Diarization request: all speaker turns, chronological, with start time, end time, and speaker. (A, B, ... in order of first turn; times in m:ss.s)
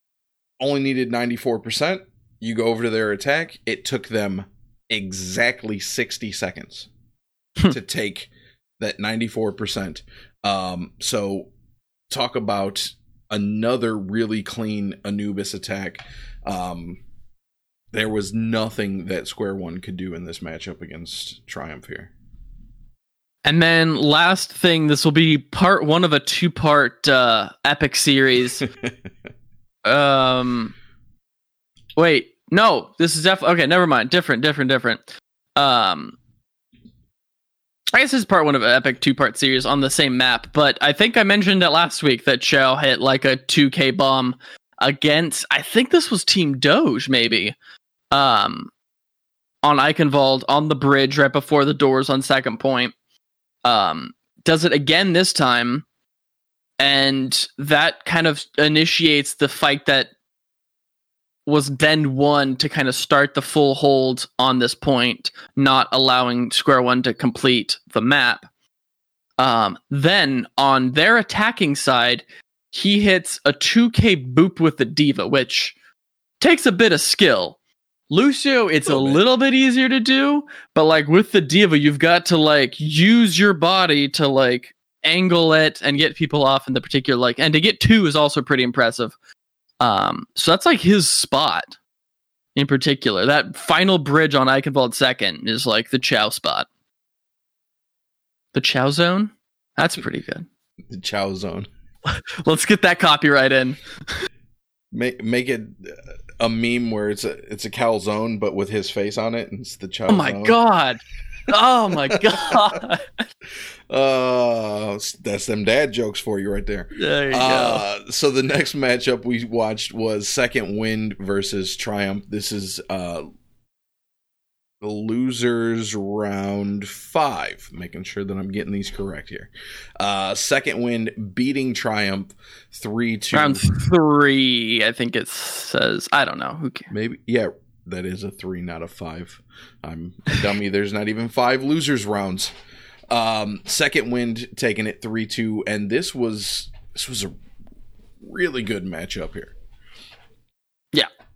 0:00.6-0:06.9 A
0:07.7-0:11.5 A
0:12.1-0:17.0 A
0:17.9-0:22.1 A
0:23.4-0:28.6 B
0:28.6-0:28.9 A
0:29.8-0:30.7 B
0:32.0-0:35.0 B
0:35.6-0:36.2 B
0:37.9-0:47.6 B
0:48.1-0:48.7 B
0:49.6-0:52.9 B
0:53.6-0:55.8 B
0:56.8-1:00.1 B
1:01.5-1:08.5 B
1:09.4-1:15.8 B
1:16.4-1:17.6 B
1:18.1-1:29.2 B
1:18.9-1:19.2 A
1:29.8-1:31.7 B
1:32.6-1:36.7 B
1:38.5-1:40.5 B
1:40.9-1:41.7 A
1:42.1-1:43.8 B
1:44.9-1:50.6 A
1:50.1-1:53.2 B
1:52.0-1:52.8 A
1:53.9-2:03.3 A
1:57.0-1:57.8 B
2:04.8-2:13.7 A
2:13.3-2:16.9 B
2:16.9-2:22.5 A
2:23.1-2:27.3 A
2:28.2-2:29.5 A